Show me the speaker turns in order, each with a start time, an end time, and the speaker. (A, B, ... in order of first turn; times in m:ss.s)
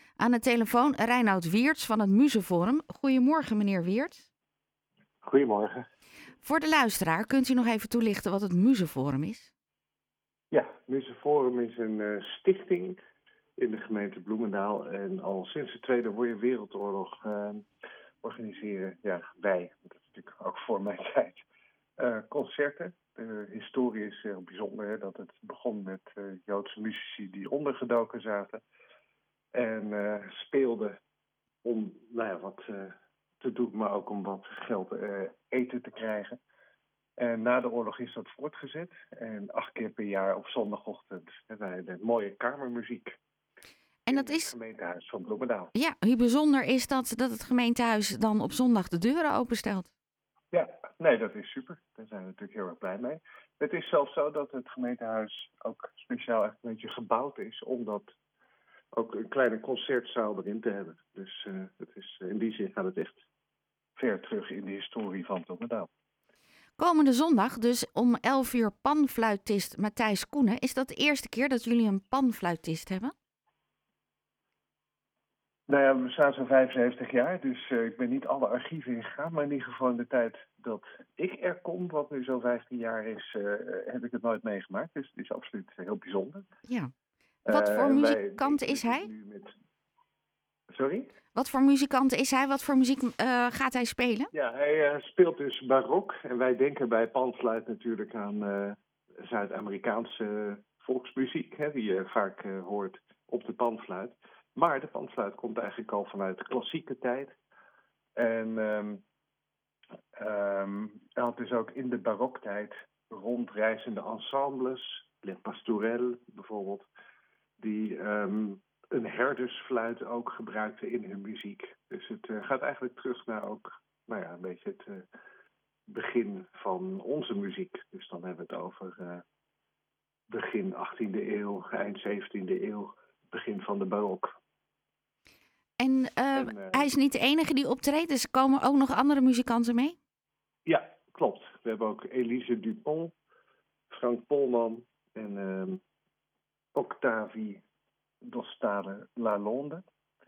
0:00.2-0:04.3 A
0:05.2-0:05.8 B
0:06.4-0:09.5 A
0:10.5-0:13.0 B
0:13.6-0:17.6 B
0:18.2-0:21.4 B
0:22.0-0:28.6 B
0:29.5-0:31.0 B
0:31.6-0:36.4 B
0:37.2-0:43.1 B
0:44.0-0:44.5 A
0:44.1-0:45.7 B
0:45.7-0:49.9 A
0:50.5-0:58.1 B
0:58.9-1:03.2 B
1:04.0-1:05.9 B
1:06.8-1:13.1 A
1:15.7-1:26.4 B
1:26.7-1:26.9 A
1:27.4-1:29.5 B
1:27.5-1:29.1 A
1:30.7-1:31.1 B
1:31.3-1:34.3 A
1:34.3-1:47.3 B
1:48.2-1:49.0 B
1:50.1-1:56.8 B
1:57.6-2:05.0 B
2:05.9-2:09.2 B
2:10.3-2:14.3 B
2:15.8-2:20.0 A
2:16.4-2:16.9 B
2:20.6-2:23.1 B
2:23.9-2:25.8 B
2:26.7-2:27.6 B
2:28.2-2:29.8 B